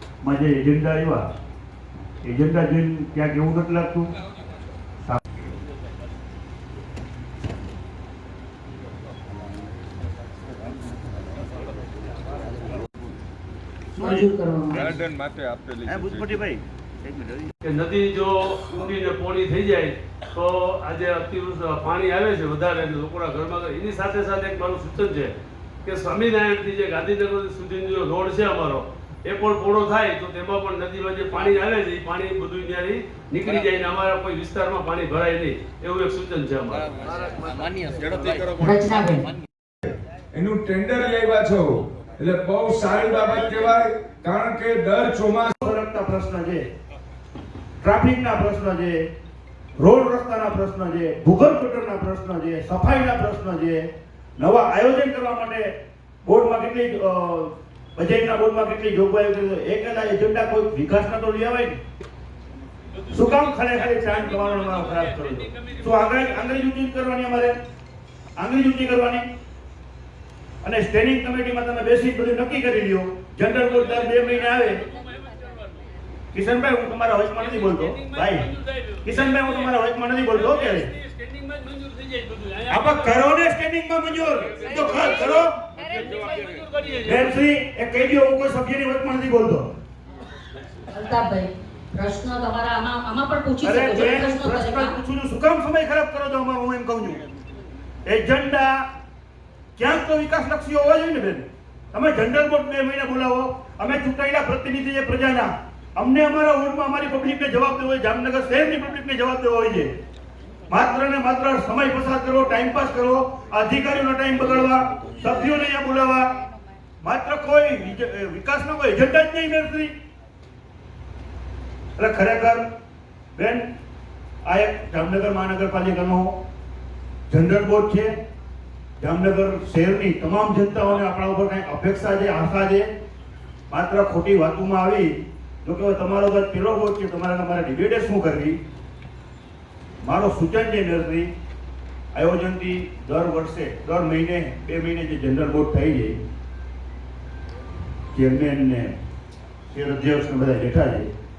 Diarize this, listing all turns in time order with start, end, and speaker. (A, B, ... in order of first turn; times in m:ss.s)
0:00.2-0:01.3 A
0:02.2-0:04.1 A
0:14.0-0:14.3 A
0:14.7-0:16.2 B
0:15.8-0:17.5 A
0:17.6-0:36.9 C
0:39.9-0:45.6 B
0:45.6-0:46.7 A
0:47.8-0:49.0 A
0:49.8-0:53.9 A
0:54.4-0:55.7 A
0:56.2-1:01.8 A
1:03.1-1:07.6 A
1:03.1-1:05.9 C
1:08.4-1:09.2 A
1:10.6-1:14.8 A
1:15.1-1:15.4 C
1:16.3-1:18.5 A
1:17.4-1:19.7 C
1:19.0-1:20.9 A
1:20.3-1:23.2 C
1:22.7-1:25.6 A
1:24.3-1:27.4 C
1:27.0-1:29.7 A
1:30.9-1:35.0 D
1:33.6-1:37.2 A
1:38.0-1:38.8 A
1:39.8-1:49.9 A
1:50.7-1:56.3 A
1:57.0-1:59.9 A
2:02.0-2:02.6 A
2:03.3-2:03.6 A
2:04.4-2:06.4 A
2:07.3-2:08.1 A
2:09.0-2:12.9 A
2:13.7-2:18.6 A
2:20.0-2:21.3 A
2:22.1-2:26.2 A
2:28.1-2:28.9 A
2:29.7-2:31.1 A